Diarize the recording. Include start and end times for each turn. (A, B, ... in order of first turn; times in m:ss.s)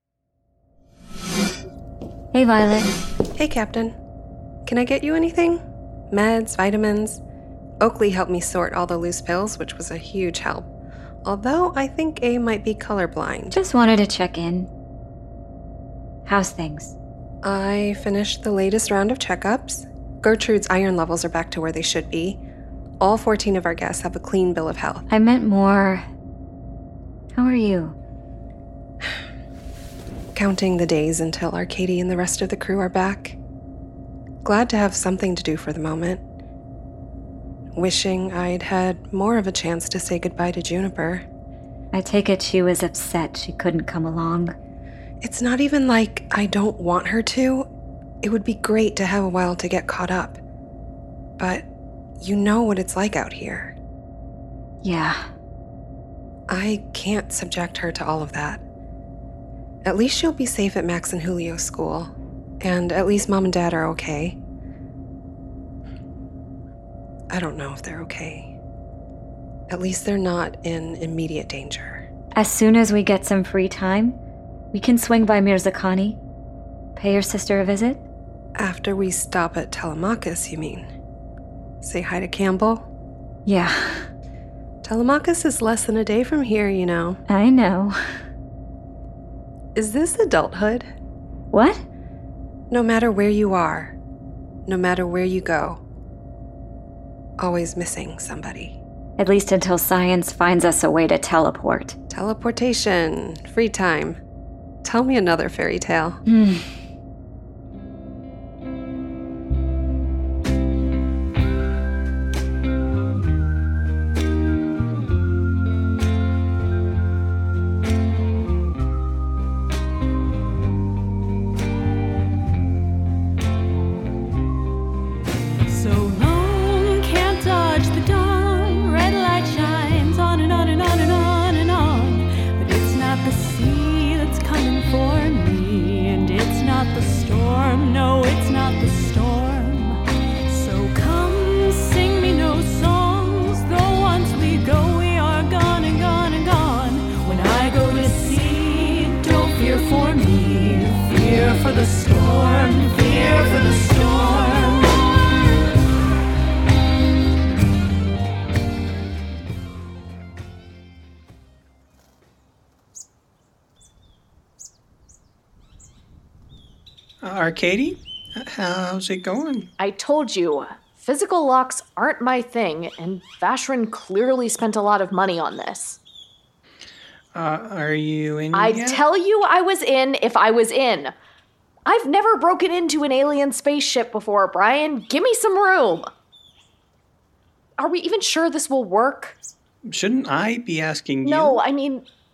0:02.3-0:02.9 A
0:03.4-0:04.0 B
0:04.6-0:07.2 B
0:07.8-0:10.7 B
0:11.2-0:13.6 B
0:13.5-0:14.7 A
0:16.2-0:17.0 A
0:17.4-0:22.4 B
0:23.0-0:25.1 B
0:25.1-0:26.1 A
0:27.3-0:28.0 A
0:30.4-0:33.4 B
0:34.4-0:36.2 B
0:37.8-0:41.2 B
0:41.9-0:44.6 A
0:45.2-0:47.7 B
0:48.2-0:50.4 B
0:51.4-0:51.7 B
0:52.2-0:53.8 B
0:54.8-0:55.3 A
0:56.5-0:58.6 B
0:59.8-1:04.4 B
1:07.3-1:08.6 B
1:09.7-1:12.0 B
1:12.4-1:14.2 A
1:14.7-1:16.2 A
1:17.0-1:18.0 A
1:18.6-1:20.9 B
1:21.8-1:22.9 B
1:23.4-1:24.1 A
1:24.8-1:27.2 B
1:27.3-1:28.0 A
1:29.8-1:30.9 B
1:31.5-1:31.8 A
1:32.7-1:34.0 B
1:34.7-1:35.8 B
1:37.4-1:38.8 B
1:39.2-1:42.0 A
1:42.1-1:44.2 B
1:44.8-1:46.2 B
1:46.3-1:46.7 A
2:05.7-2:20.0 C
2:20.5-2:34.9 C
2:47.2-2:49.7 D
2:49.8-2:56.0 E
2:57.3-2:59.0 D
2:58.5-3:01.1 E
3:01.8-3:06.1 E
3:07.8-3:09.4 E
3:09.9-3:11.6 D
3:11.2-3:12.0 E